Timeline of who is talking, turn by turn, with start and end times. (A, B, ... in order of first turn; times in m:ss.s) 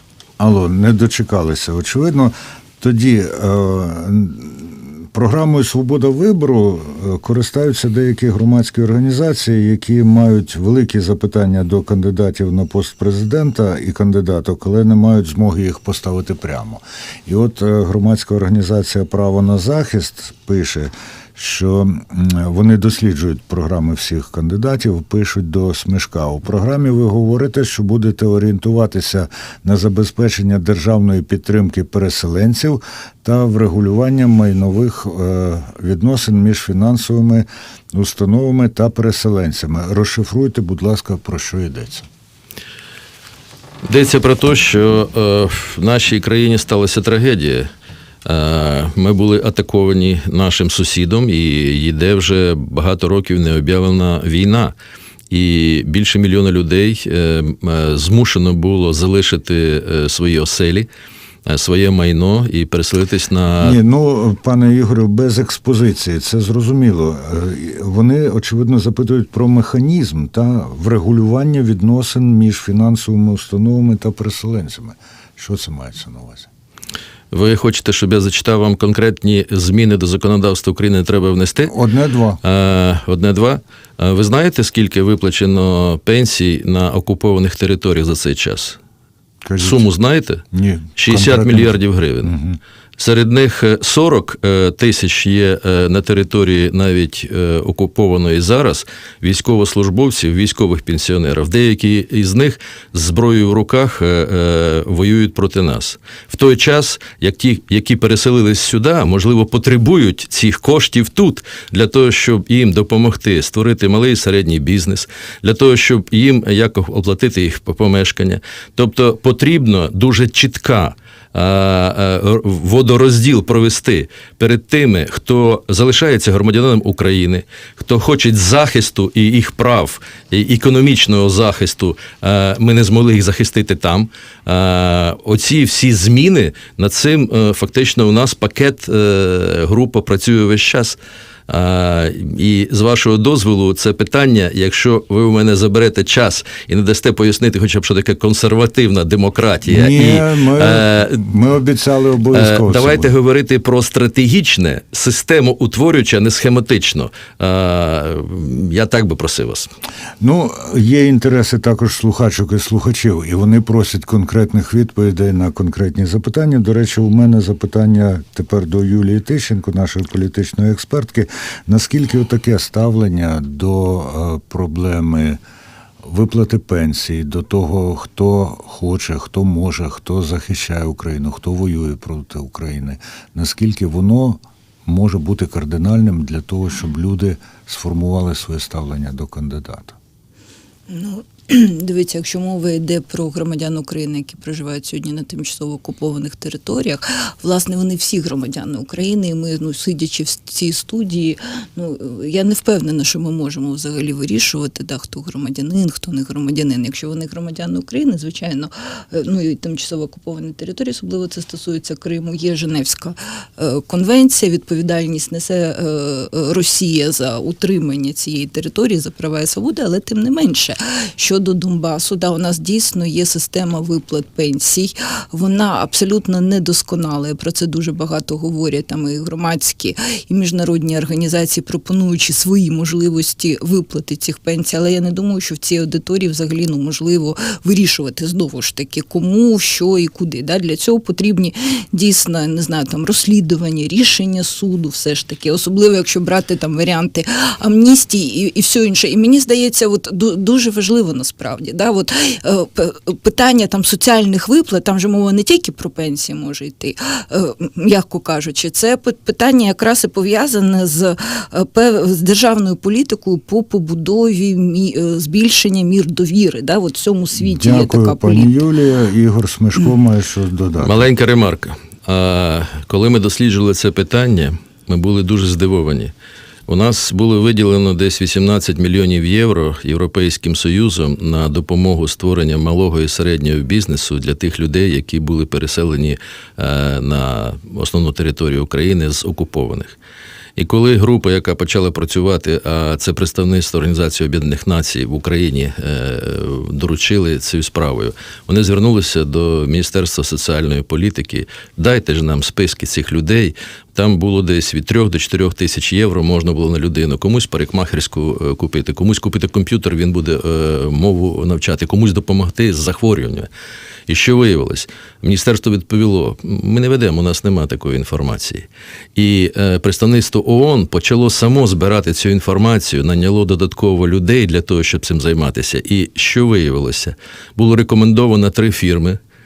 0:00.4-0:42.1 A
0:43.9-0:47.7 B
0:48.3-0:54.7 B
0:55.3-1:00.9 B
1:01.5-1:03.8 B
1:03.6-1:16.5 A
1:17.3-1:21.7 B
1:21.6-1:22.4 A
1:22.4-1:28.8 B
1:29.4-1:29.8 A
1:29.6-1:30.4 B
1:30.5-1:32.6 A
1:31.0-1:32.3 B
1:33.0-2:31.3 B
2:29.7-2:33.1 A
2:32.3-2:39.7 B
2:40.2-2:55.4 A
2:56.0-3:10.0 A
3:10.9-4:28.5 C
4:27.4-4:31.1 A
4:30.8-4:36.1 B
4:36.7-4:50.0 B
4:50.6-5:13.5 B
5:14.1-5:29.2 B